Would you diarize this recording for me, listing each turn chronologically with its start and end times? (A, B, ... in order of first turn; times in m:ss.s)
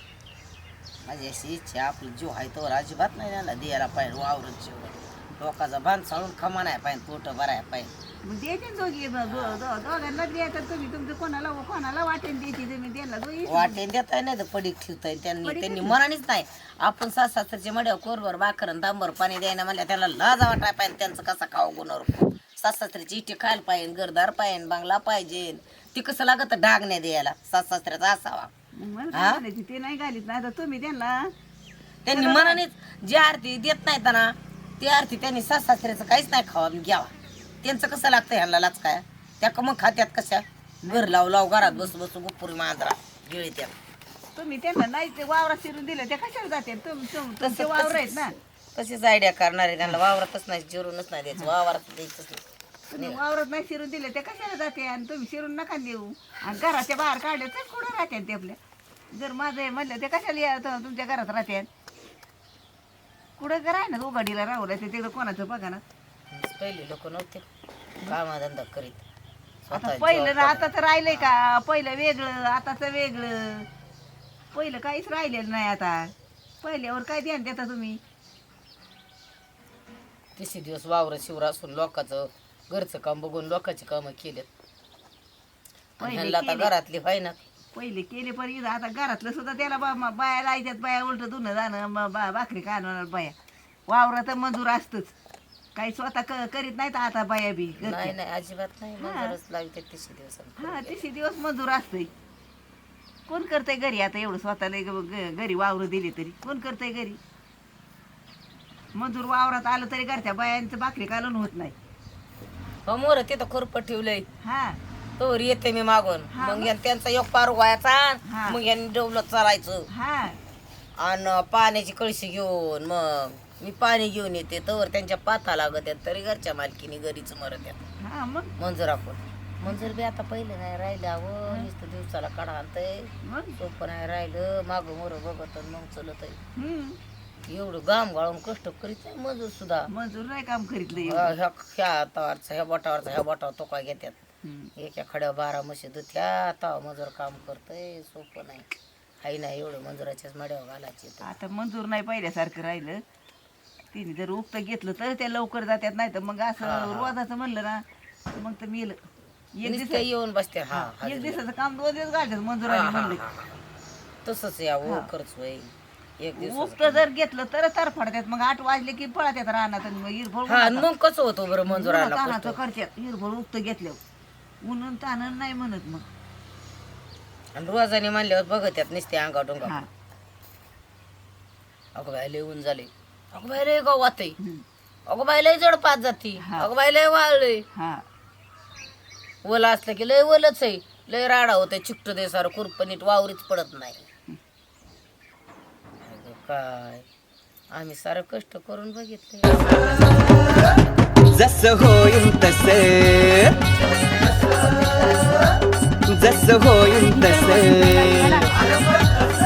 0:01.0-0:07.9 A
0:08.2-0:13.8 B
0:13.5-0:28.5 A
0:15.4-0:16.0 B
0:28.8-0:31.3 B
0:29.1-0:29.4 A
0:32.0-0:37.1 A
0:32.1-0:32.6 B
0:37.6-0:43.7 A
0:40.8-0:41.9 B
0:44.4-0:48.4 B
0:47.4-0:52.4 A
0:52.9-0:58.6 B
0:59.1-1:01.7 B
1:03.4-1:05.8 B
1:06.3-1:07.5 A
1:08.0-1:09.0 A
1:09.7-1:10.6 A
1:09.7-1:13.7 B
1:14.5-1:18.0 B
1:20.4-1:24.5 A
1:26.0-1:27.4 A
1:26.0-1:26.7 B
1:27.7-1:33.4 B
1:33.9-1:35.2 B
1:35.8-1:38.2 B
1:37.8-1:41.0 A
1:39.0-1:39.4 B
1:40.6-1:42.1 B
1:43.3-1:47.2 B
1:49.0-1:51.8 B
1:52.9-1:54.2 A
1:54.4-1:54.8 B
1:55.2-1:59.9 A
1:56.3-1:56.7 B
1:58.2-1:58.6 B
1:59.9-2:00.4 B
2:01.0-2:07.8 A
2:08.0-2:08.5 B
2:08.6-2:16.4 A
2:13.2-2:13.6 B
2:16.6-2:17.0 B
2:17.5-2:19.9 A
2:19.9-2:21.3 B
2:21.0-2:24.2 A
2:24.4-2:24.7 B
2:24.8-2:28.7 A
2:29.2-2:31.3 A
2:31.2-2:33.0 B
2:33.9-2:37.8 B
2:36.6-2:37.2 A
2:38.4-2:39.0 B
2:39.6-2:40.1 B
2:39.6-2:41.4 A
2:40.7-2:43.2 B
2:42.7-2:43.6 A
2:44.2-2:47.0 A
2:44.8-2:45.1 B
2:46.4-2:50.9 B
2:50.5-2:52.6 A
2:51.7-2:54.0 B
2:54.6-2:56.1 B
2:57.6-2:59.8 A
3:02.0-3:04.4 A
3:05.1-3:07.6 A
3:06.4-3:06.7 B
3:07.7-3:08.0 B
3:09.4-3:14.0 A
3:16.0-3:17.1 A
3:17.7-3:20.2 A
3:21.3-3:23.6 C
3:23.6-3:25.4 A
3:26.1-3:28.6 C